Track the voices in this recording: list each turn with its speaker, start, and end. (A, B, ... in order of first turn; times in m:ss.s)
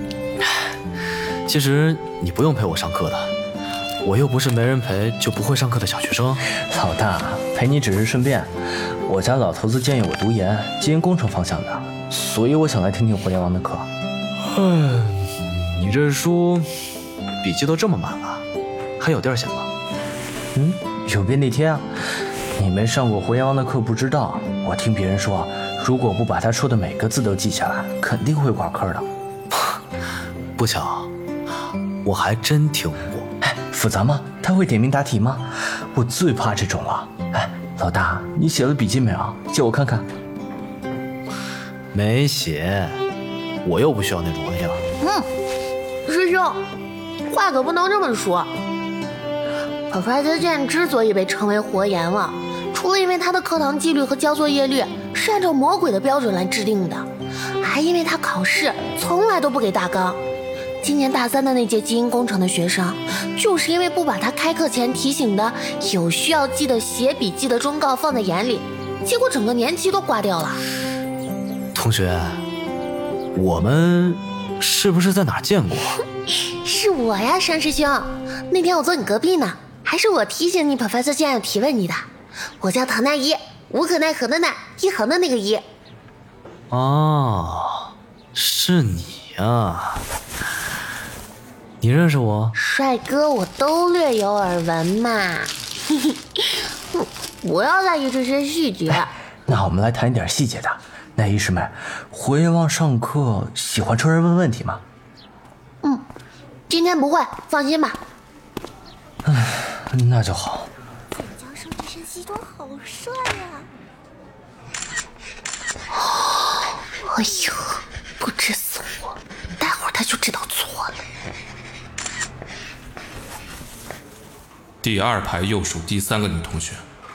0:01.5-0:03.3 A
0:04.0-0:06.4 A
0:06.6-0:13.9 B
0:14.4-0:16.7 A
0:17.4-0:18.4 A
0:19.0-0:19.7 A
0:20.5-0:21.9 B
0:22.6-0:29.1 B
0:30.6-0:31.1 A
0:32.0-0:33.3 A
0:33.4-0:40.1 B
0:41.9-0:43.0 A
0:43.6-0:44.8 A
0:46.0-0:46.6 C
0:47.3-0:48.5 C
0:49.9-0:57.1 C
0:57.6-1:00.2 C
1:00.8-1:10.6 C
1:11.7-1:12.4 A
1:13.3-1:16.0 A
1:16.6-1:25.6 C
1:26.7-1:30.0 A
1:31.8-1:32.5 A
1:32.6-1:39.1 C
1:39.4-1:44.8 B
1:46.7-1:48.0 C
1:49.2-1:50.7 B
1:51.2-1:53.7 C
1:55.9-2:01.0 C
2:04.8-2:06.8 D